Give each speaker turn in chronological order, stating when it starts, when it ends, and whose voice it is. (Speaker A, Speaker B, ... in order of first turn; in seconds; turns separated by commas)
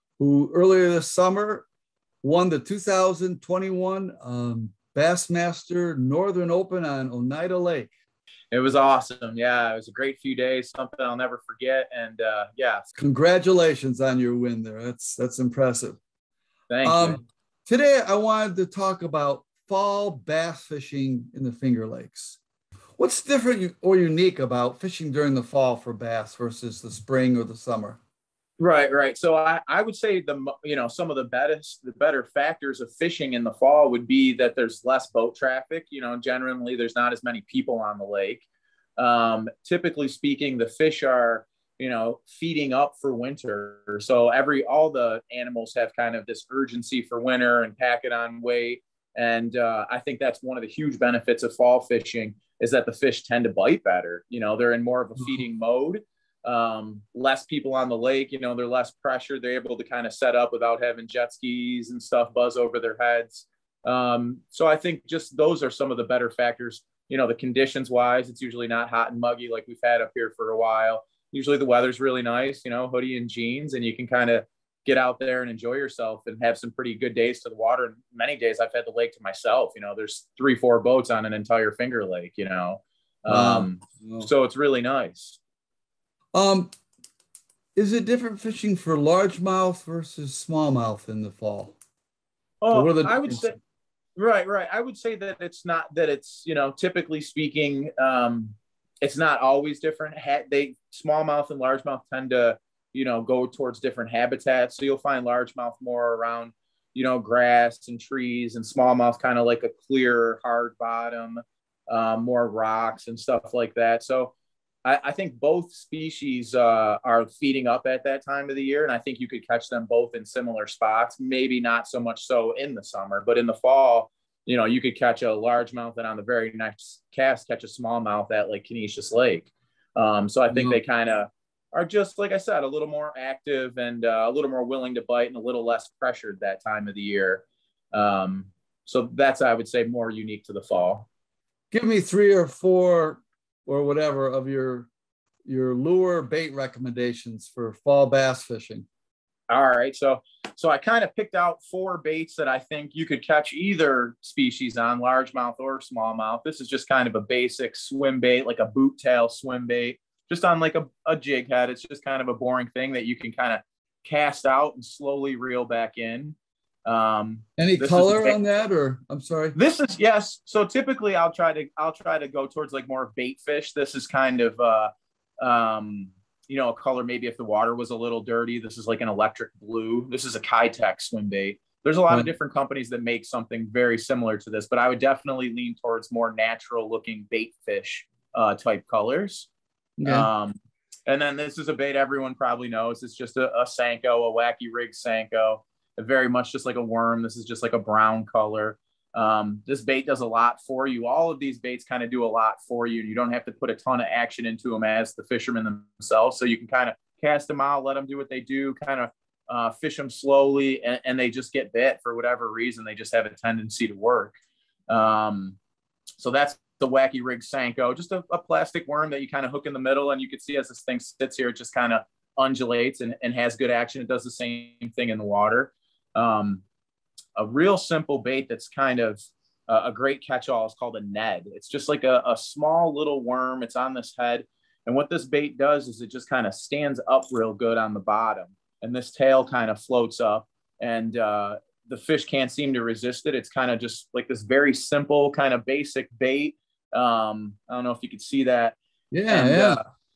Speaker A: 0.2-1.6, Speaker A: 2.2-7.9, Speaker B: 8.5-12.8, Speaker A: 12.9-16.0, Speaker B: 16.7-17.2, Speaker A: 16.8-22.4, Speaker A: 23.0-28.0, Speaker B: 28.6-38.4, Speaker B: 39.0-85.4, Speaker A: 83.3-84.3, Speaker A: 86.3-86.7, Speaker A: 87.7-91.8, Speaker B: 92.6-93.6, Speaker A: 92.7-93.5, Speaker B: 94.2-114.3, Speaker B: 114.8-141.1, Speaker A: 130.5-130.8, Speaker A: 141.7-144.9, Speaker A: 145.4-148.9, Speaker B: 149.5-168.4, Speaker A: 167.6-169.6, Speaker B: 169.5-189.5, Speaker A: 190.0-190.3, Speaker B: 190.0-190.5, Speaker B: 191.1-214.3, Speaker B: 214.9-215.6, Speaker B: 216.2-226.6, Speaker B: 227.3-248.8, Speaker A: 249.1-249.8, Speaker B: 249.3-249.8